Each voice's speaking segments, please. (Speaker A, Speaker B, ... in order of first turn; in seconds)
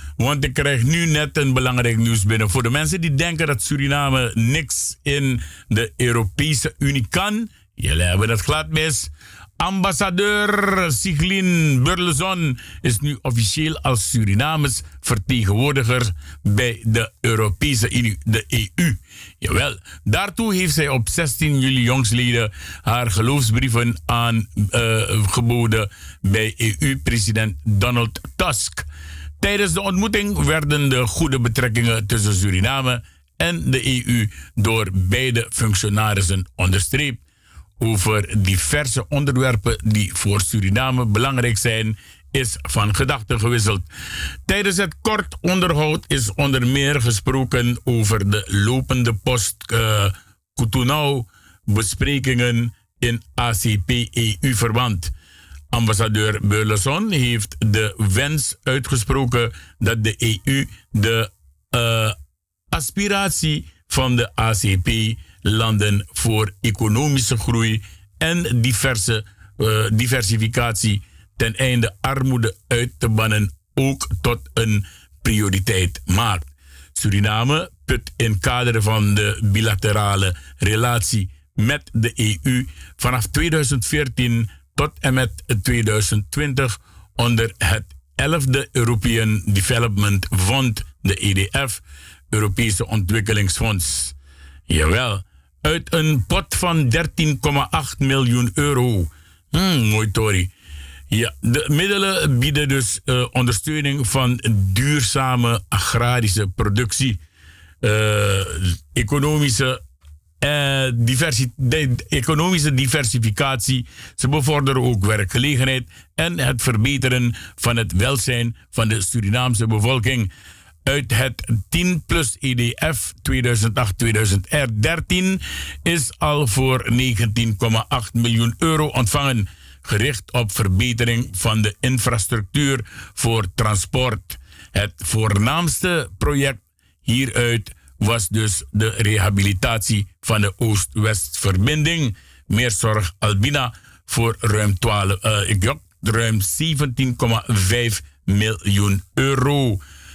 Speaker A: 0.2-28.9, 29.4-37.2, 37.8-43.9, 44.5-55.1, 55.7-62.1, 62.7-94.2, 94.7-100.5, 101.1-107.2, 107.8-109.8, 110.4-120.3, 120.9-149.8